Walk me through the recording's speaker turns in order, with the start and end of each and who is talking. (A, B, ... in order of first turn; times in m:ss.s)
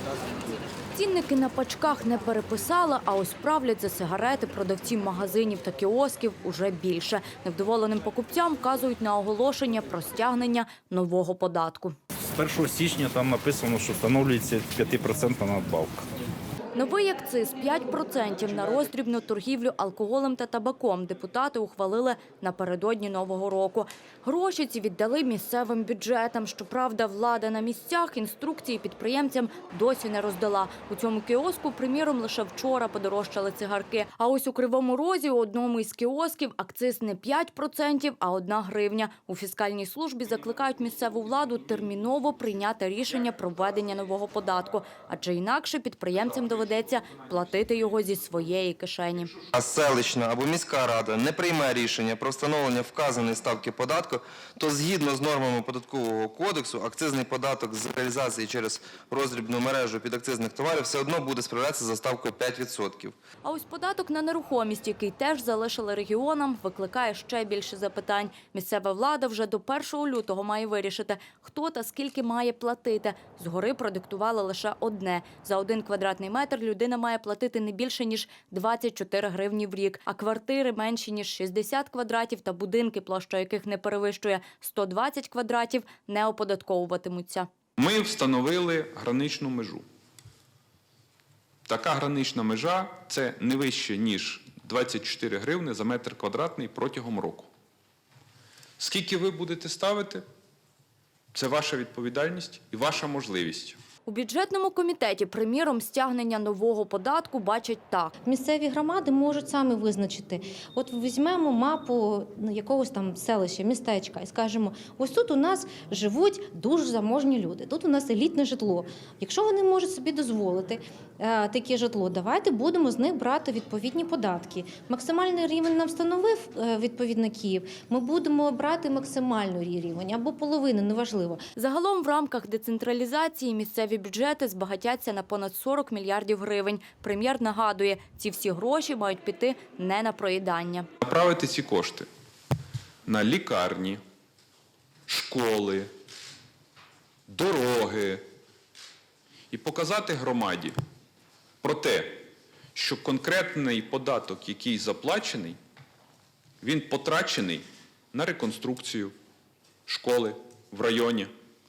0:00.9-0:12.0 A
0:12.3-0:16.0 B
0:16.7-0:49.4 A
0:49.5-1:03.1 C
1:03.4-1:27.5 A
1:27.8-1:29.8 D
1:31.6-1:37.5 D
1:38.8-1:40.2 D
1:41.3-1:43.8 D
1:44.0-1:48.1 A
1:48.2-2:11.4 E
2:11.6-2:20.9 A
2:21.0-2:22.1 D
2:23.0-2:24.0 D
2:25.1-2:25.9 D
2:27.3-2:28.2 D
2:29.5-2:30.8 D
2:31.6-2:35.6 D
2:36.6-2:39.1 D
2:39.9-2:41.3 D